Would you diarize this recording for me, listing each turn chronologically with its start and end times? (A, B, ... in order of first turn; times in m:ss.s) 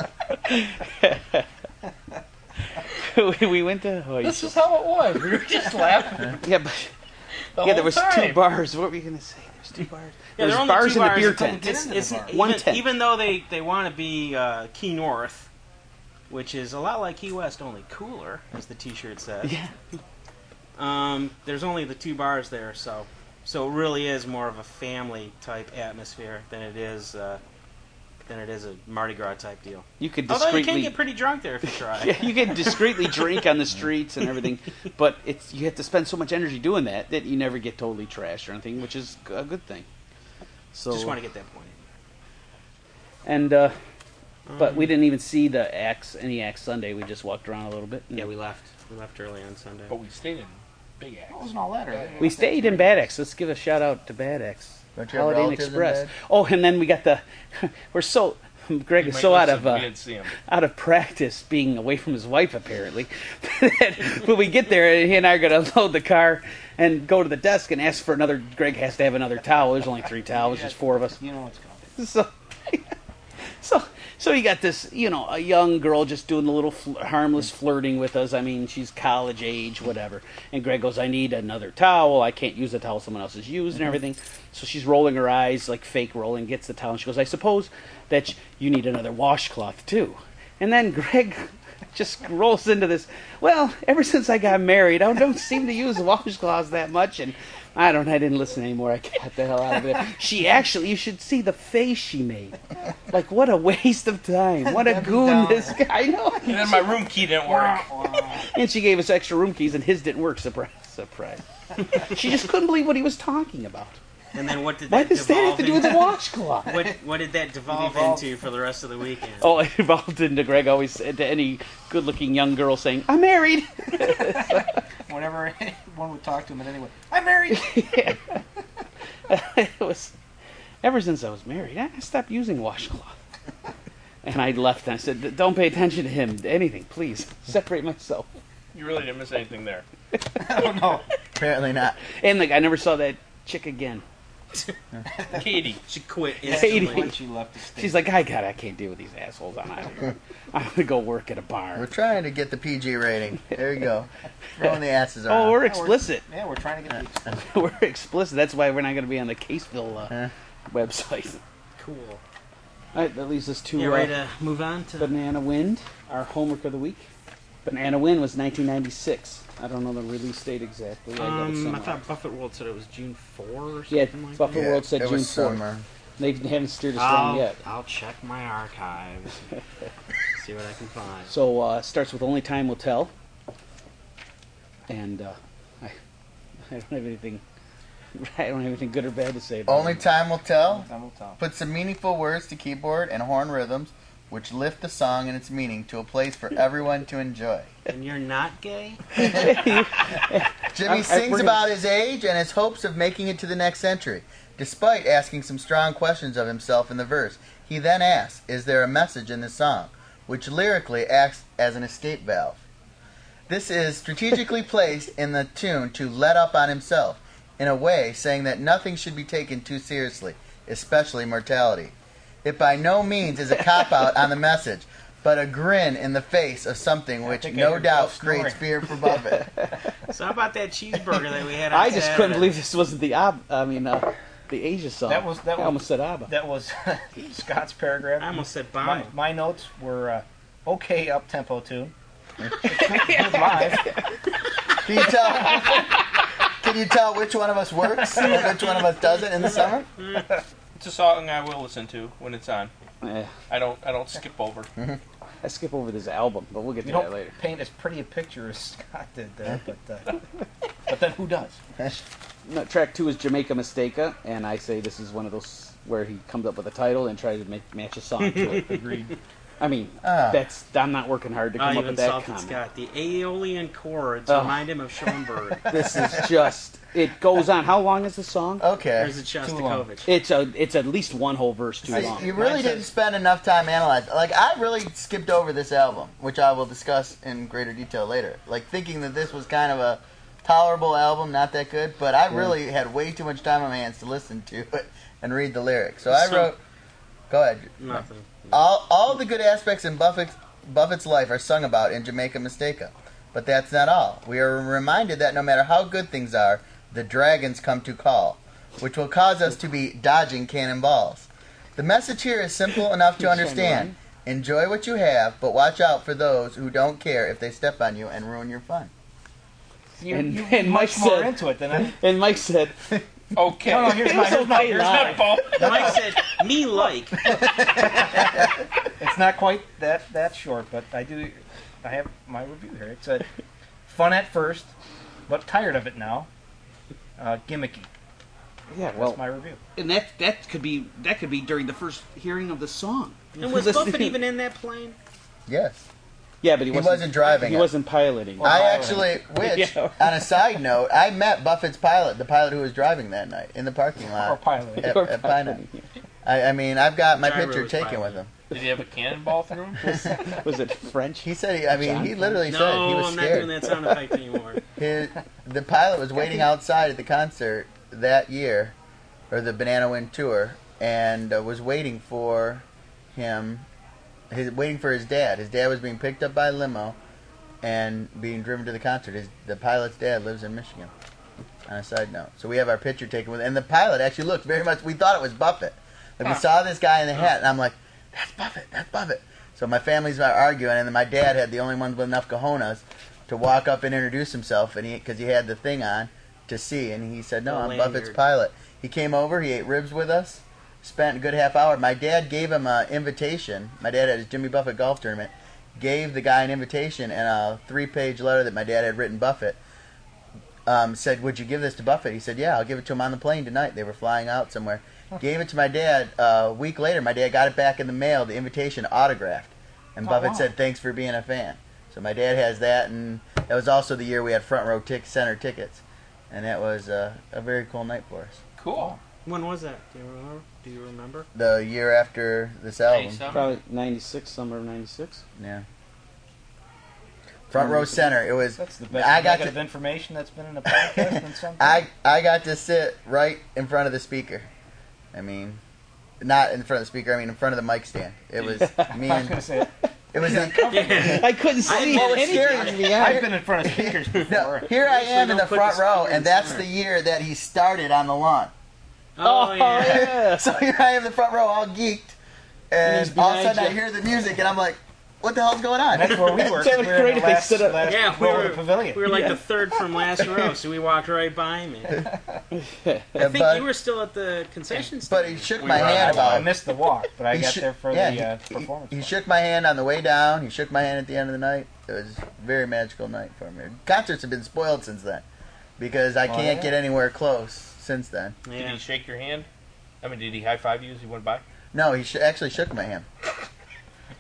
0:00.5-0:01.5 A
0:02.9-0:04.6 A
0:04.2-0:06.4 B
0:06.4-0:06.9 A
0:07.6-0:08.4 B
0:07.6-0:12.9 A
0:10.4-0:15.5 C
0:11.0-0:12.4 D
0:16.3-0:19.6 C
0:19.4-0:19.7 A
0:20.8-0:27.4 C
0:28.3-0:33.2 C
0:30.0-0:31.0 A
0:32.0-0:39.9 A
0:40.7-0:41.2 A
0:40.9-0:41.8 C
0:43.2-0:43.8 A
0:44.5-0:44.9 C
0:44.6-0:48.3 A
0:48.1-0:49.9 C
0:49.9-0:51.5 B
0:51.3-0:53.1 D
0:52.2-0:59.9 A
0:55.0-0:56.1 E
0:59.0-1:00.3 B
1:00.4-1:11.2 A
1:10.3-1:11.8 D
1:12.0-1:12.9 A
1:13.6-1:46.9 A
1:44.7-1:45.8 D
1:46.4-1:47.9 B
1:47.4-1:48.5 D
1:48.5-1:54.0 A
1:54.3-1:56.1 C
1:54.9-1:56.8 A
1:56.7-1:59.5 C
1:56.7-1:57.0 D
1:57.7-1:58.3 D
1:59.4-2:04.8 A
2:04.1-2:04.5 D
2:05.1-2:08.1 D
2:07.5-2:08.4 A
2:09.3-2:10.1 A
2:10.8-2:13.2 A
2:14.2-2:18.3 A
2:18.7-2:19.8 B
2:20.4-2:21.1 D
2:21.4-2:22.0 E
2:22.2-2:24.0 A
2:25.1-2:25.5 D
2:25.3-2:25.8 B
2:25.8-2:27.2 C
2:26.4-2:28.0 D
2:26.5-2:27.2 A
2:27.8-2:31.9 A
2:31.8-2:35.6 E
2:35.3-2:36.2 A
2:35.6-2:37.4 D
2:37.3-2:40.2 A
2:40.7-2:41.4 A
2:41.8-2:42.2 C
2:43.0-2:44.1 A
2:43.8-2:45.1 C
2:45.0-2:47.1 A
2:47.7-2:52.0 A
2:51.2-2:54.6 C
2:53.9-2:55.6 A
2:54.5-2:55.8 E
2:56.2-2:57.6 A
2:57.0-2:59.5 C
3:00.3-3:01.3 C
3:01.3-3:03.1 A
3:04.9-3:06.0 A
3:06.7-3:07.4 A
3:08.2-3:10.1 A
3:09.7-3:17.7 E
3:10.6-3:11.4 D
3:17.9-3:19.5 C
3:19.2-3:21.7 A
3:20.7-3:32.6 E
3:33.5-3:49.6 E
3:47.3-3:48.7 D
3:50.1-3:52.6 C
3:51.7-3:56.3 A
3:55.1-4:01.9 D
3:58.2-3:59.1 C
4:02.6-4:03.9 D
4:02.7-4:04.0 A
4:04.8-4:05.9 E
4:06.6-4:09.9 E
4:10.8-4:12.7 B
4:13.0-4:13.3 A
4:13.5-4:14.7 B
4:15.4-4:17.4 A
4:16.8-4:20.2 D
4:20.9-4:21.6 D
4:22.5-4:28.8 A
4:28.2-4:28.9 C
4:28.6-4:29.1 D
4:29.6-4:32.6 A
4:30.0-4:30.4 E
4:31.6-4:35.8 C
4:34.3-4:34.6 A
4:35.7-4:38.6 A
4:38.6-4:39.1 E
4:39.0-4:40.1 C
4:39.4-4:39.9 D
4:40.1-4:42.4 A
4:41.9-4:56.6 E
4:42.0-4:42.8 D
4:56.1-4:56.5 C
4:57.3-4:58.0 E
4:57.8-4:58.6 C
4:58.5-5:18.9 E
5:13.2-5:14.0 A
5:20.0-5:22.0 D
5:20.1-5:22.9 A
5:23.3-5:26.0 B
5:23.6-5:26.0 D
5:23.7-5:25.6 A
5:25.6-5:27.4 C
5:27.2-5:33.3 D
5:33.9-5:34.7 D
5:35.3-5:36.3 D
5:37.2-5:37.9 D
5:38.7-5:39.2 A
5:39.0-5:39.6 D
5:39.8-5:44.2 A
5:43.4-5:45.0 C
5:45.5-5:45.8 E
5:46.4-5:50.3 A
5:46.7-5:47.7 E
5:48.4-5:49.2 D
5:48.4-5:55.6 E
5:54.2-5:55.0 D
5:54.8-5:55.8 A
5:56.2-5:58.3 E
5:57.2-5:58.2 C
5:58.5-6:00.0 B
5:59.8-6:00.2 E
5:59.9-6:02.4 A
6:01.2-6:03.6 E
6:02.5-6:04.6 C
6:04.8-6:08.8 E
6:09.3-6:13.7 E
6:14.3-6:17.0 E
6:17.6-6:20.9 E
6:21.7-6:49.6 E
6:37.5-6:38.2 C
6:50.7-7:08.4 E
7:00.0-7:00.5 D
7:08.6-7:08.9 B
7:08.7-7:09.0 D
7:09.2-7:11.3 C
7:11.4-7:13.3 E
7:12.9-7:13.5 B
7:13.3-7:15.2 A
7:15.4-7:15.6 E
7:17.5-7:19.6 E
7:17.6-7:18.0 D
7:18.6-7:21.9 D
7:20.8-7:24.5 E
7:25.1-7:25.6 E
7:26.2-7:29.4 E
7:28.4-7:34.7 D
7:28.6-7:29.0 A
7:30.1-7:38.5 E
7:30.7-7:33.0 C
7:31.1-7:33.2 A
7:34.7-7:36.7 C
7:39.2-7:40.1 C
7:39.2-7:40.4 A
7:39.8-7:42.2 E
7:42.7-7:46.6 E
7:42.8-7:43.8 A
7:45.9-7:49.1 D
7:46.3-7:48.1 A
7:47.8-7:52.0 C
7:49.0-7:49.4 A
7:52.6-7:53.2 A
7:53.2-7:53.7 E
7:53.2-7:55.8 C
7:55.1-7:56.7 E
7:55.6-7:56.5 B
7:55.7-7:59.2 D
7:57.3-8:05.2 E
8:05.8-8:08.4 E
8:06.3-8:06.8 D
8:08.5-8:08.8 C
8:08.5-8:09.5 B
8:10.0-8:11.4 B
8:11.7-8:13.1 E